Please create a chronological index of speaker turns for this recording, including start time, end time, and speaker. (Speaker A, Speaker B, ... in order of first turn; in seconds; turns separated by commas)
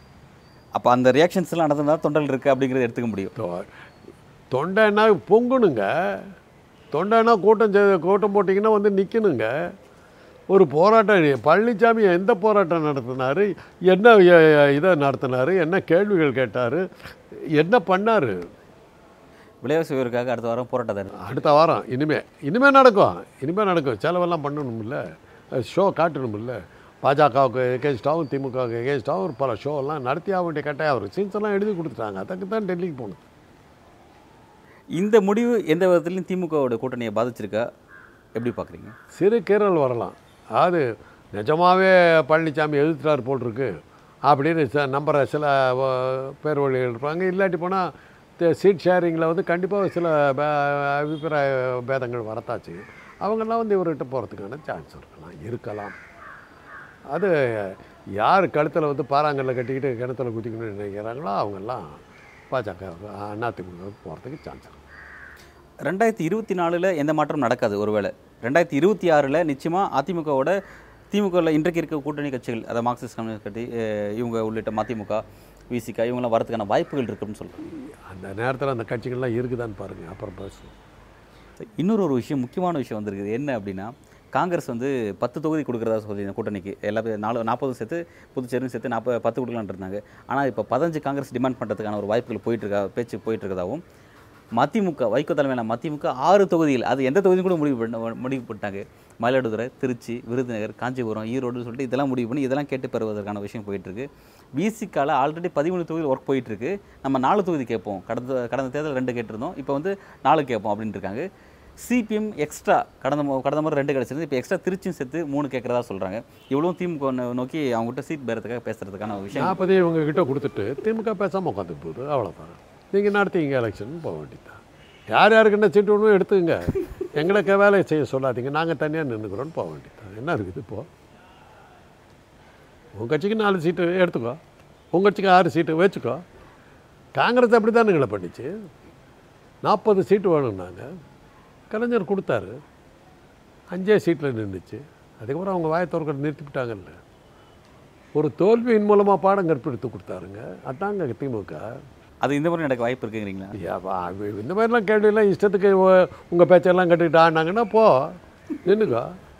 Speaker A: 0.7-3.3, Speaker B: 3.4-3.7, Speaker B: 4.5-6.3, Speaker B: 6.9-9.5, Speaker B: 10.5-18.4, Speaker A: 19.6-21.4, Speaker B: 21.1-25.0, Speaker B: 25.5-33.2, Speaker A: 35.0-37.7, Speaker A: 38.4-38.9, Speaker B: 39.1-43.7, Speaker B: 44.3-56.0, Speaker B: 57.1-64.8, Speaker A: 65.8-70.6, Speaker A: 71.1-77.7, Speaker B: 77.9-80.8, Speaker A: 81.8-93.8, Speaker A: 94.6-104.1, Speaker A: 104.6-111.2, Speaker A: 111.8-119.6, Speaker B: 119.3-130.9, Speaker B: 133.0-134.4, Speaker B: 134.9-136.2, Speaker B: 137.2-138.5, Speaker B: 139.7-140.9, Speaker B: 141.7-142.6, Speaker B: 143.7-147.0, Speaker B: 148.2-151.7, Speaker A: 152.2-153.6, Speaker B: 153.6-159.2